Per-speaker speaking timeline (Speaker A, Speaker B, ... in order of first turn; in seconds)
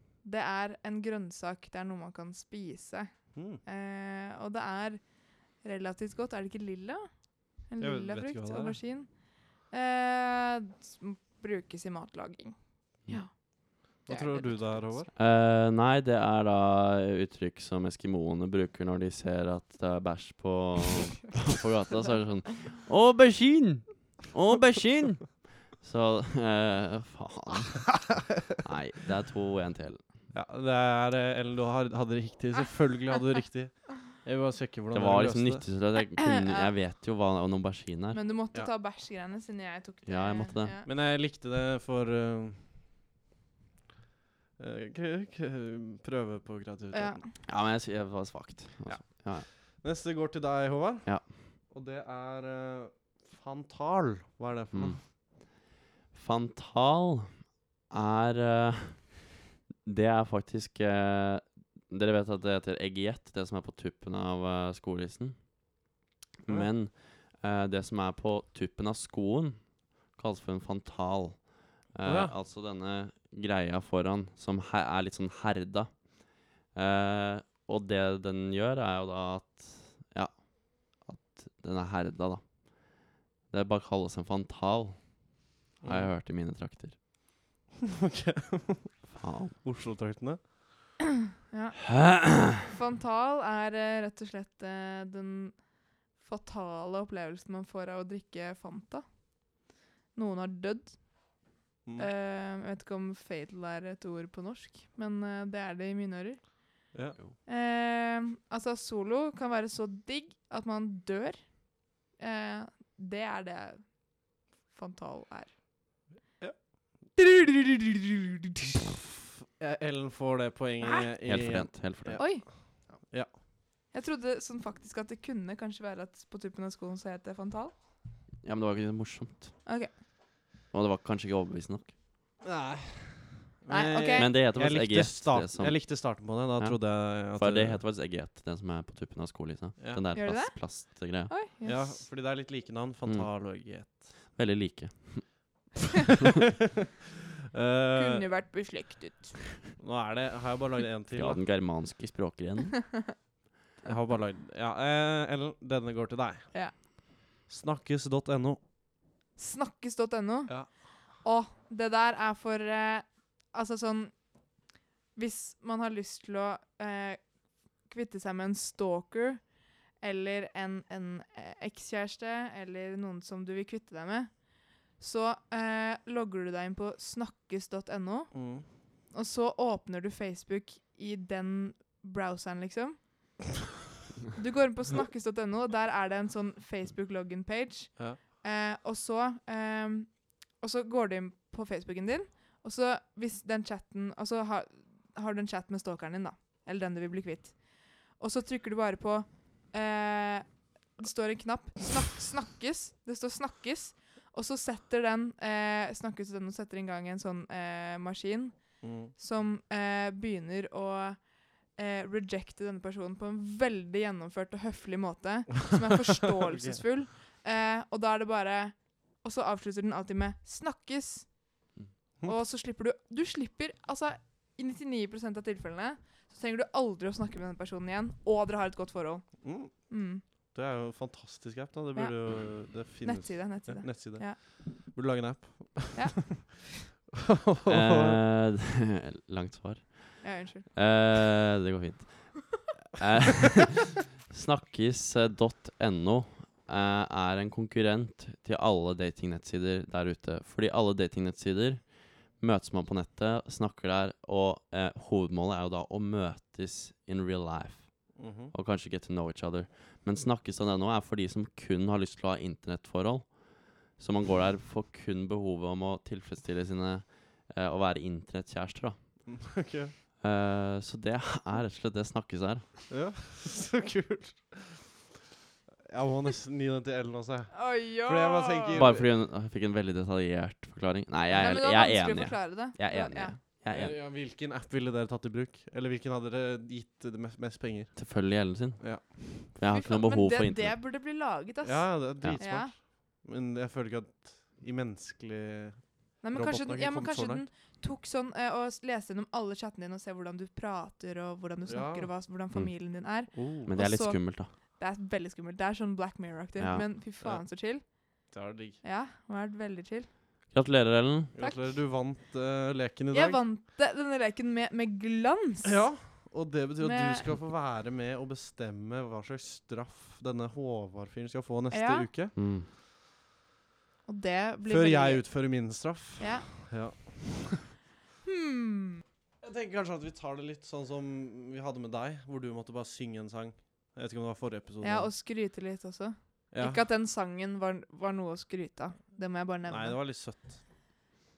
Speaker A: 0.2-14.8, 36.2-36.7, 38.1-40.9, 46.9-47.3, 91.5-92.0, 92.6-106.9, 107.4-115.5, 117.2-118.2, 122.2-122.9, 123.9-127.8, 129.7-129.9, 133.7-134.3, 140.1-142.0, 147.9-149.6, 159.3-164.2, 165.1-167.3, 167.8-183.4, 184.3-221.4, 222.2-230.2, 231.9-234.4, 235.9-236.7, 240.2-240.7, 277.5-278.9, 281.3-283.4, 289.6-292.7, 296.2-310.1, 311.4-311.7, 313.1-316.0, 316.8-317.3, 321.7-322.1, 324.1-326.5, 328.2-329.0, 334.8-340.0
Speaker B: 3.3-3.6, 7.8-8.8, 14.1-15.1, 30.3-35.7, 40.8-42.6, 44.6-47.2, 48.9-55.0, 72.0-72.3, 85.8-86.1, 88.0-90.5, 101.8-102.1, 106.9-107.2, 116.4-116.7, 119.6-123.3, 132.4-137.8, 139.8-140.0, 141.6-144.2, 147.5-148.3, 149.8-151.4, 153.8-156.8, 157.5-158.6, 178.3-178.7, 208.8-209.1, 216.4-216.8, 229.4-229.9, 230.5-236.4, 237.2-238.2, 258.1-258.5, 269.3-269.9, 272.9-275.0, 275.8-279.1, 283.7-288.1, 288.8-289.3, 291.6-297.4, 301.7-302.1, 303.3-303.7, 307.2-307.5, 308.3-308.8, 311.3-313.4, 315.6-322.3, 324.7-327.7, 329.4-335.1, 336.5-336.8, 339.7-340.6
Speaker C: 15.1-30.1, 34.9-38.2, 40.0-40.7, 47.4-49.5, 51.0-51.3, 54.7-65.8, 66.4-87.0, 89.1-89.5, 91.9-92.5, 121.2-122.3, 128.4-130.0, 130.7-131.9, 134.2-141.3, 143.0-145.6, 151.1-153.1, 237.7-269.2, 270.2-272.7, 278.8-283.9, 287.9-290.8, 302.5-304.5, 306.6-306.9, 310.5-311.3, 322.4-322.7